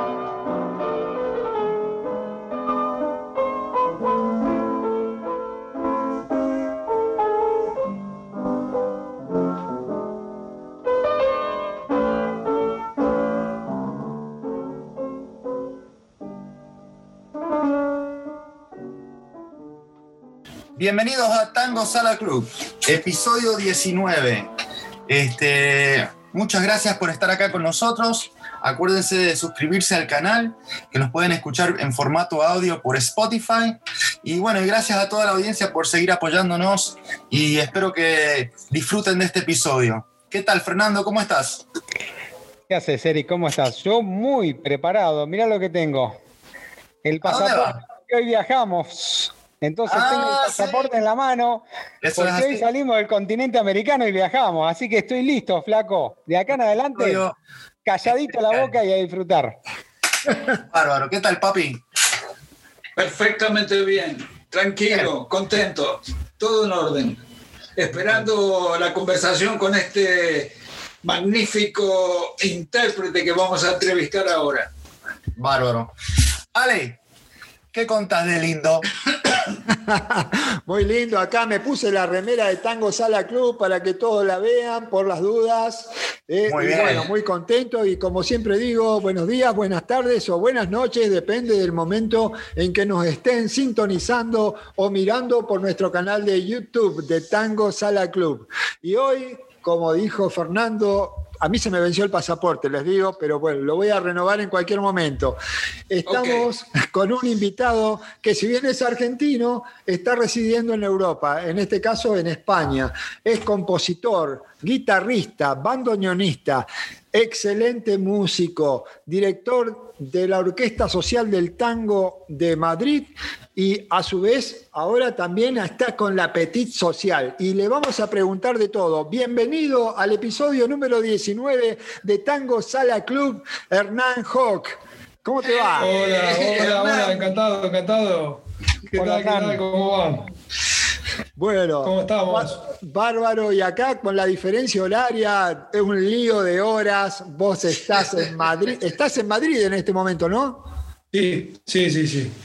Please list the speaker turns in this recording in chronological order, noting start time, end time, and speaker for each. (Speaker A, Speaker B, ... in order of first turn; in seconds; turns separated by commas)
Speaker A: 20.8-24.5, Speaker A: 25.1-41.6, Speaker B: 42.7-46.2, Speaker B: 47.0-51.6, Speaker A: 47.2-47.8, Speaker A: 49.9-50.8, Speaker A: 52.0-52.6, Speaker B: 52.1-57.2, Speaker A: 57.0-57.3, Speaker B: 57.8-59.6, Speaker A: 60.6-61.8, Speaker C: 63.0-67.2, Speaker C: 67.8-74.7, Speaker A: 75.4-75.9, Speaker A: 76.5-77.0, Speaker A: 77.7-78.8, Speaker D: 79.7-105.4, Speaker A: 86.5-87.1, Speaker D: 105.9-135.9, Speaker C: 106.1-106.5, Speaker C: 135.6-137.3, Speaker E: 135.8-140.3, Speaker B: 138.9-139.6, Speaker D: 141.4-150.7, Speaker E: 141.8-142.6, Speaker E: 151.1-152.3